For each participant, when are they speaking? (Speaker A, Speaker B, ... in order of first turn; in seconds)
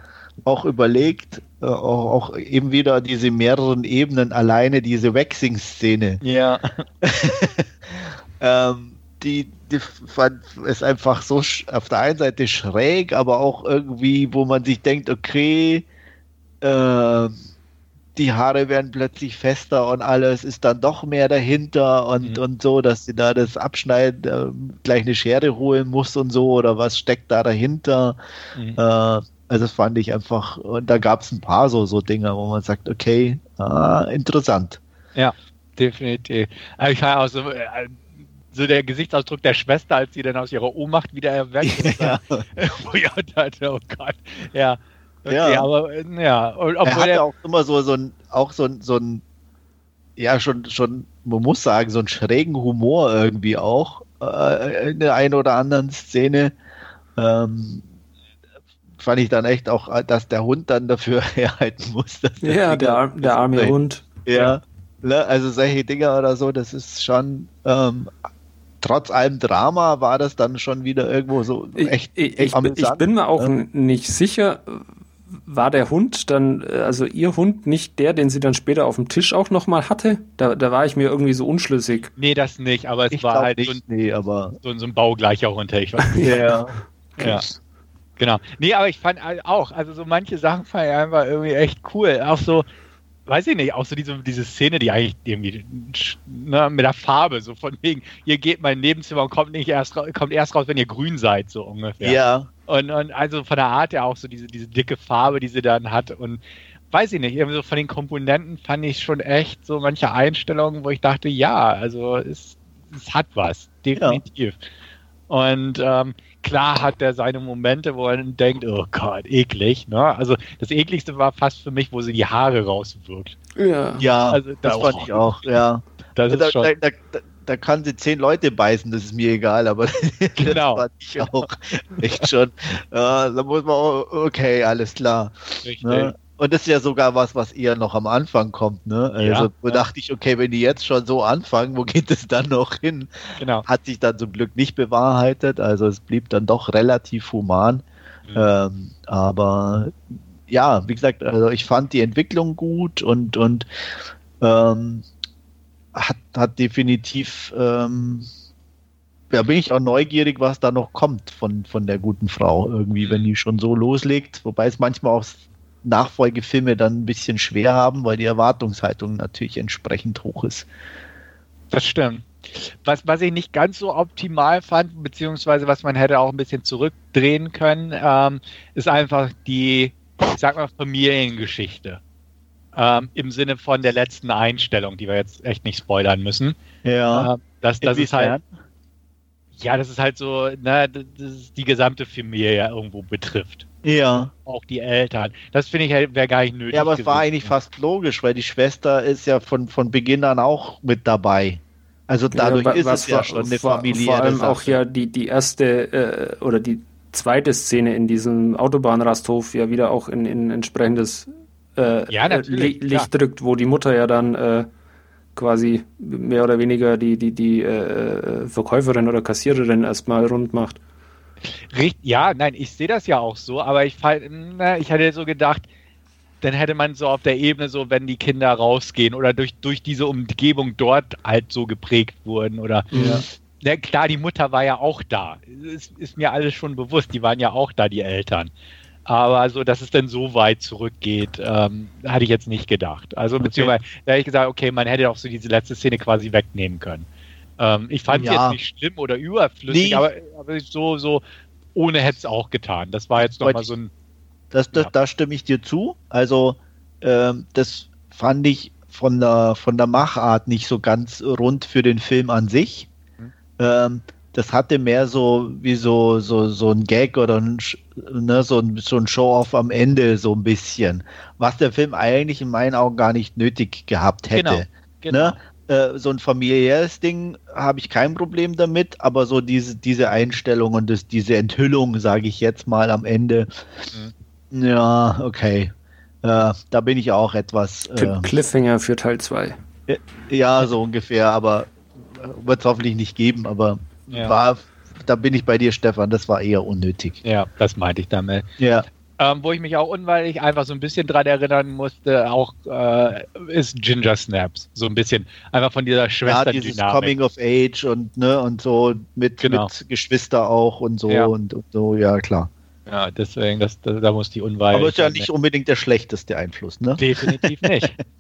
Speaker A: 0.4-6.2, 7.0-15.8, 16.6-17.3, 18.1-28.2, 28.8-34.8, 41.6-42.4, 45.3-45.7, 46.8-49.2, 50.2-56.5, 57.1-57.8, 59.0-68.1, 68.8-73.5, 83.1-84.6, 86.2-87.4, 102.0-102.5, 114.0-114.2, 124.0-147.8, 148.3-153.7, 154.4-155.1, 155.9-158.3, 159.3-170.7, 186.8-187.3, 187.8-188.4, 193.8-194.3, 196.7-204.8, 232.9-233.2, 243.4-243.7, 248.1-248.6, 249.7-250.1, 253.4-253.7, 254.5-262.9, 263.6-283.9, 284.5-288.3, 289.9-297.2, 298.6-298.9, 306.2-312.5, 314.7-317.9
Speaker B: 6.2-6.8, 35.1-47.2, 82.2-83.8, 84.6-86.3, 87.2-87.4, 88.2-92.6, 93.3-106.4, 106.9-114.6, 115.3-123.4, 124.3-125.4, 126.2-126.7, 130.4-131.4, 135.6-136.1, 139.2-139.8, 143.4-143.7, 171.7-182.0, 182.7-186.6, 187.1-188.4, 189.6-193.7, 194.4-197.5, 212.1-213.1, 221.7-225.7, 226.4-238.5, 239.1-247.1, 247.6-251.2, 251.7-253.9, 274.3-275.4, 297.2-298.4, 299.2-307.1, 309.4-309.7, 311.1-311.3, 312.9-315.3, 317.0-318.0
Speaker C: 62.4-64.5, 71.8-74.8, 75.5-82.1, 86.1-86.4, 123.5-124.0, 202.3-214.7, 215.3-220.8, 232.9-233.2, 287.9-289.6